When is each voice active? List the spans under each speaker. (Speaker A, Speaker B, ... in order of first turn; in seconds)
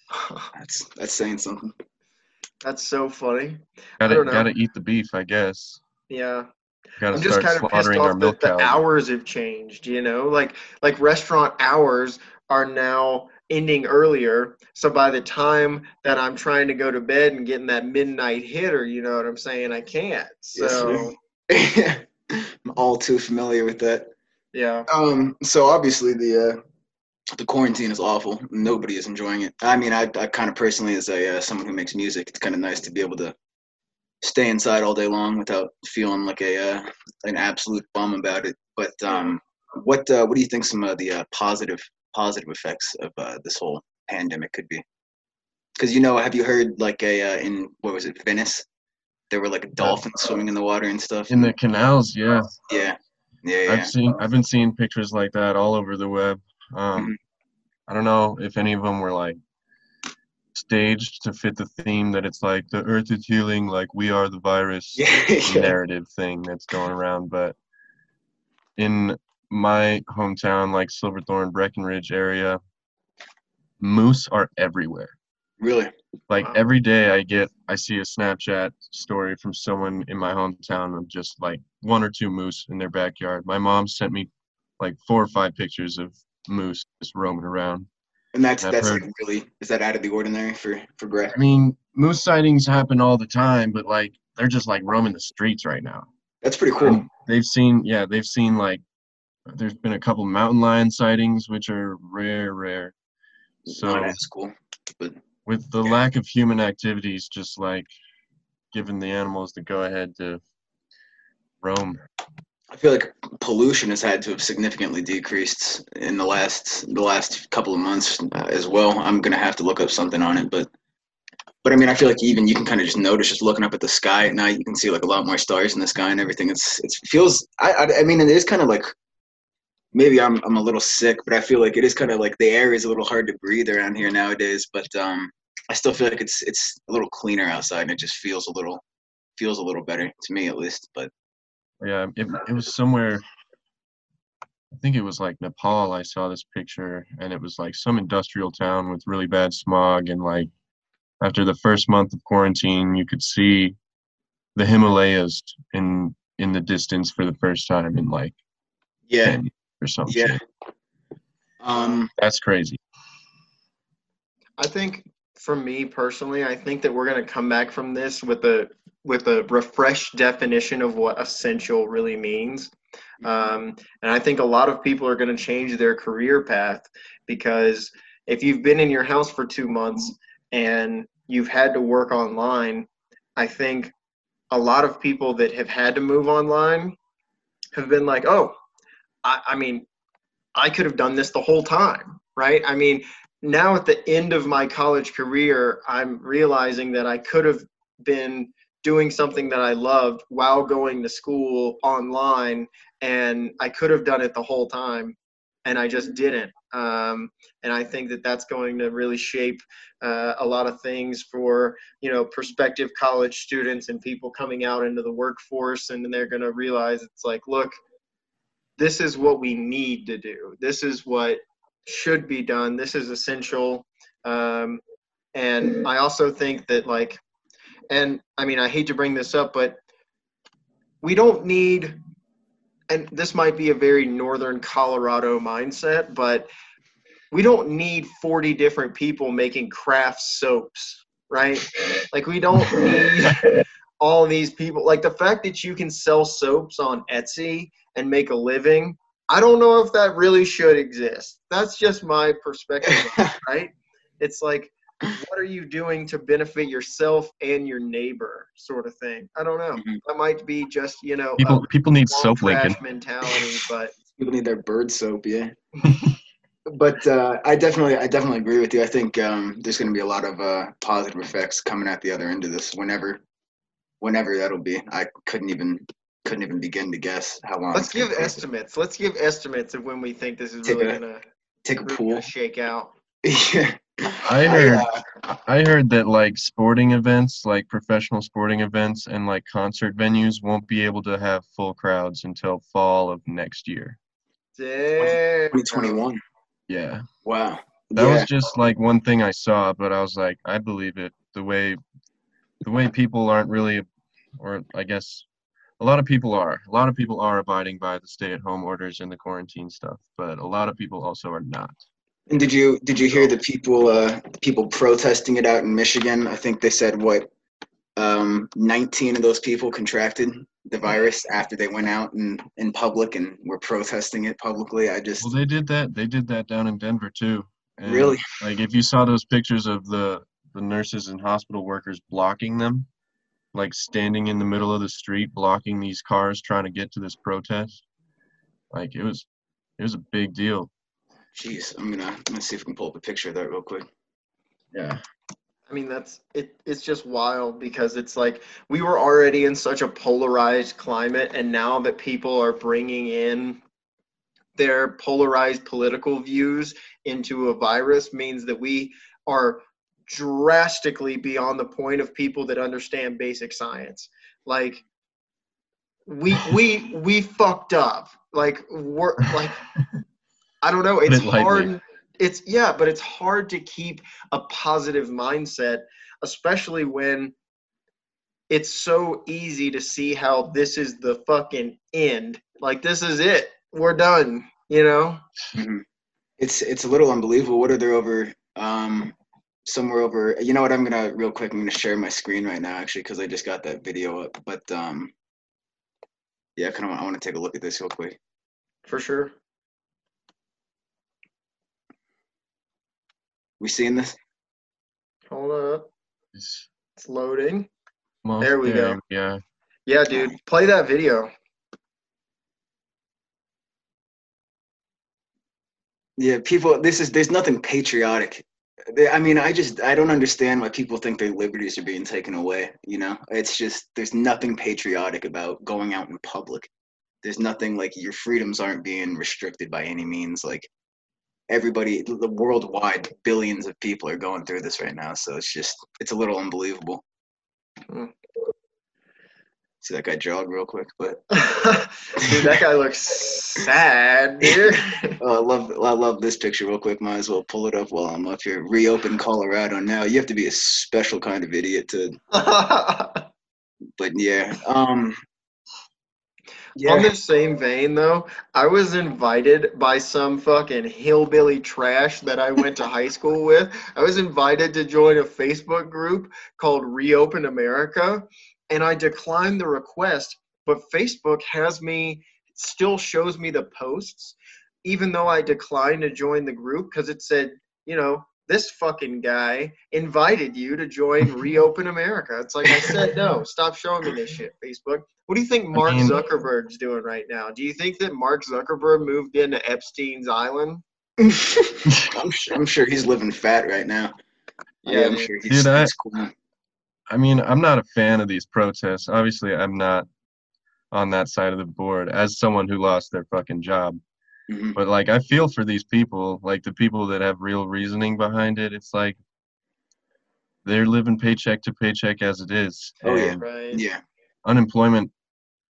Speaker A: 0.1-0.5, 2.6-4.5, 6.1-6.5, 7.1-21.1, 24.5-24.9, 164.6-183.9, 184.5-186.9, 187.7-188.6, 189.2-189.8, 190.6-217.7, 218.8-224.8, 225.3-227.2, 227.9-229.8, 231.0-232.0, 232.9-236.5, 237.3-243.4, 244.0-263.9, 277.7-281.2, 281.8-282.9, 294.6-296.0, 345.7-353.6, 354.6-364.8, 366.1-369.6, 370.6-377.3, 378.5-385.2, 398.9-399.3, 405.3-405.9, 407.0-407.7, 408.4-409.0, 409.9-411.3, 441.3-445.2, 452.3-453.2, 456.8-490.8, 494.8-495.3, 513.4-513.8
Speaker B: 0.5-1.7, 20.5-24.1, 24.9-26.6, 27.3-33.3, 34.2-44.8, 45.8-48.6, 49.3-51.5, 52.7-53.9, 65.0-65.8, 75.6-75.9, 88.3-91.4, 96.4-97.1, 103.7-105.2, 112.7-120.7, 121.6-128.9, 129.9-138.8, 139.4-141.1, 159.1-159.4, 160.1-160.4, 161.6-162.1, 264.2-265.6, 266.7-273.2, 274.0-278.5, 280.6-281.0, 281.6-282.3, 283.2-285.0, 295.0-296.2, 297.2-298.3, 312.3-317.3, 317.9-325.3, 327.8-328.2, 341.3-343.9, 385.5-385.8, 386.4-395.1, 396.6-398.2, 403.6-404.1, 416.2-426.7, 427.2-430.7, 431.5-437.0, 439.8-441.2, 444.4-452.2, 454.0-455.2, 456.8-457.1, 491.2-494.1, 494.9-496.3, 504.5-504.8, 513.0-514.0
Speaker C: 4.0-5.8, 7.0-8.8, 51.3-52.5, 53.7-57.1, 57.9-59.4, 60.5-67.5, 68.8-72.6, 73.8-75.1, 76.3-84.3, 84.8-87.9, 88.6-89.0, 91.3-96.1, 96.8-98.8, 99.5-102.9, 103.7-104.2, 105.5-107.9, 108.7-110.4, 111.6-112.0, 141.8-143.2, 144.7-150.5, 151.2-153.8, 154.6-158.3, 159.2-160.4, 162.2-162.8, 261.4-262.8, 284.2-294.0, 296.7-297.1, 297.9-301.8, 302.6-303.8, 304.4-305.2, 305.8-311.7, 325.2-332.9, 333.5-337.8, 338.7-339.2, 339.8-340.7, 344.7-345.0, 371.1-371.7, 406.3-406.6, 408.2-409.4, 485.7-486.1, 491.9-492.1, 495.5-495.9, 497.1-500.1, 500.9-504.0, 504.8-509.2, 510.6-513.4, 514.4-515.1